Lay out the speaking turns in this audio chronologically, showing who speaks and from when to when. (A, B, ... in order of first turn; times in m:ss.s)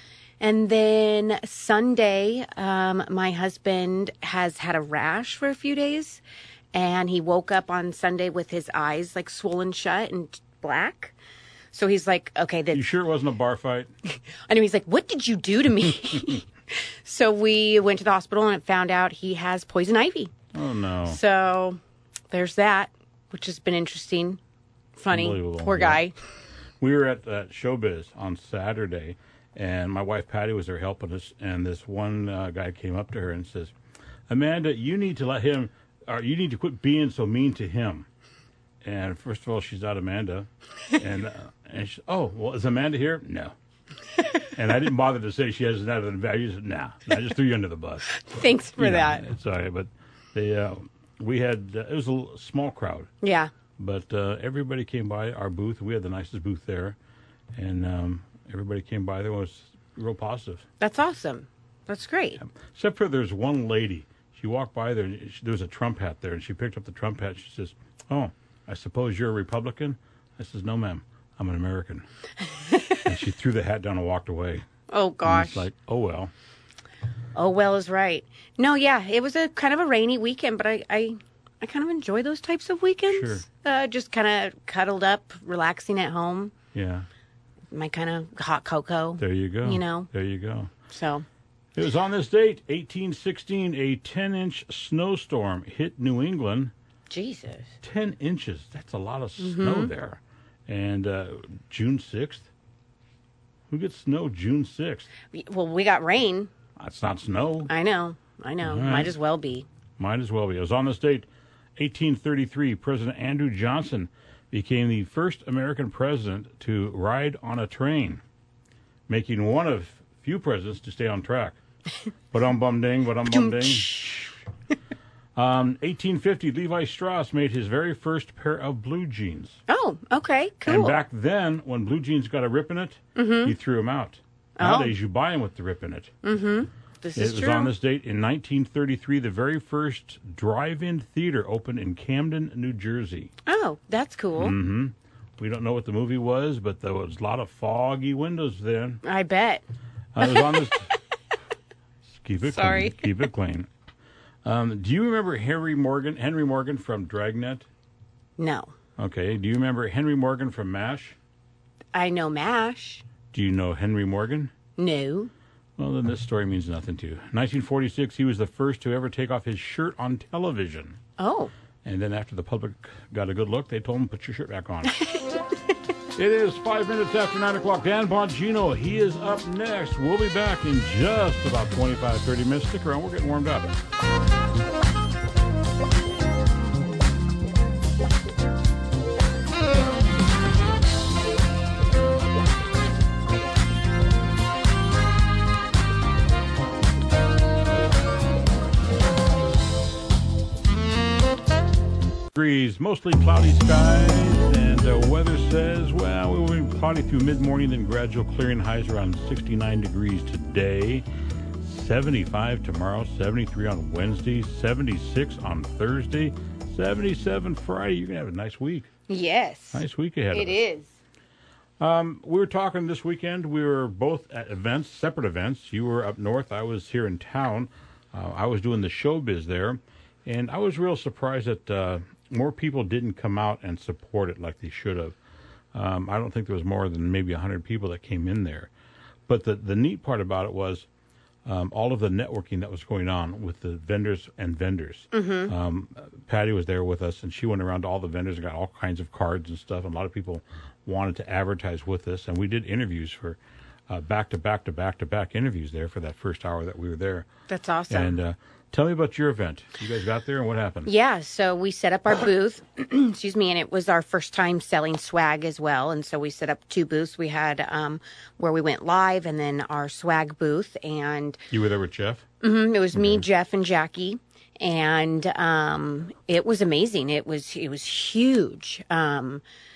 0:00.4-0:06.2 A
0:06.7-0:11.2 A
0:11.7-0:12.9 A
0:12.7-0:13.9 B
0:14.5-0:20.3 A
0:20.5-0:21.2 B
0:21.1-0:21.8 A
0:22.3-0:24.4 A
0:25.0-0:26.1 A
0:25.1-0:26.0 B
0:26.8-0:33.7 B
0:34.3-0:38.1 B
0:38.8-0:43.5 B
0:44.5-0:48.1 B
0:48.1-0:49.2 A
0:48.8-0:53.1 B
0:53.2-0:53.5 A
0:53.8-0:57.0 B
0:57.6-1:00.6 B
1:00.8-1:02.4 A
1:02.4-1:12.1 B
1:12.9-1:14.6 B
1:14.9-1:15.7 A
1:15.2-1:16.3 B
1:17.4-1:26.5 A
1:23.1-1:23.4 B
1:26.7-1:27.1 B
1:27.7-1:30.1 A
1:29.2-1:30.7 B
1:30.9-1:31.2 A
1:31.8-1:36.7 B
1:37.1-1:37.7 A
1:37.8-1:42.5 B
1:39.4-1:39.9 A
1:43.7-1:45.1 B
1:45.3-1:46.5 A
1:46.8-1:47.7 B
1:47.7-1:49.7 A
1:48.6-1:49.1 B
1:50.0-1:58.2 B
1:59.1-2:01.6 B
2:02.3-2:04.1 B
2:03.3-2:04.3 A
2:05.4-2:09.6 B
2:09.7-2:11.0 A
2:10.6-2:16.1 B
2:13.2-2:13.6 A
2:14.6-2:15.0 A
2:16.2-2:17.7 A
2:17.2-2:23.3 B
2:23.5-2:24.6 A
2:24.4-2:29.0 B
2:29.0-2:29.6 A
2:30.2-2:30.9 B
2:30.2-2:31.0 A
2:32.1-2:33.7 B
2:32.4-2:33.1 A
2:34.4-2:37.7 B
2:38.4-2:38.7 A
2:39.0-2:41.2 B
2:41.9-2:43.0 A
2:43.3-2:44.5 B
2:44.8-2:45.3 A
2:45.8-2:51.0 B
2:51.2-2:51.5 A
2:51.8-2:55.0 B
2:56.2-3:03.7 B
3:22.3-3:31.0 B
3:31.6-3:38.9 B
3:39.1-3:40.9 A
3:39.7-3:40.6 B
3:41.8-3:55.2 B
3:55.7-3:58.7 B
3:59.3-4:00.9 B
4:01.5-4:17.3 B
4:05.1-4:05.5 A
4:17.5-4:18.2 A
4:17.9-4:20.9 B
4:20.9-4:31.4 A
4:31.5-4:32.2 B
4:32.4-4:39.4 A
4:32.9-4:33.2 B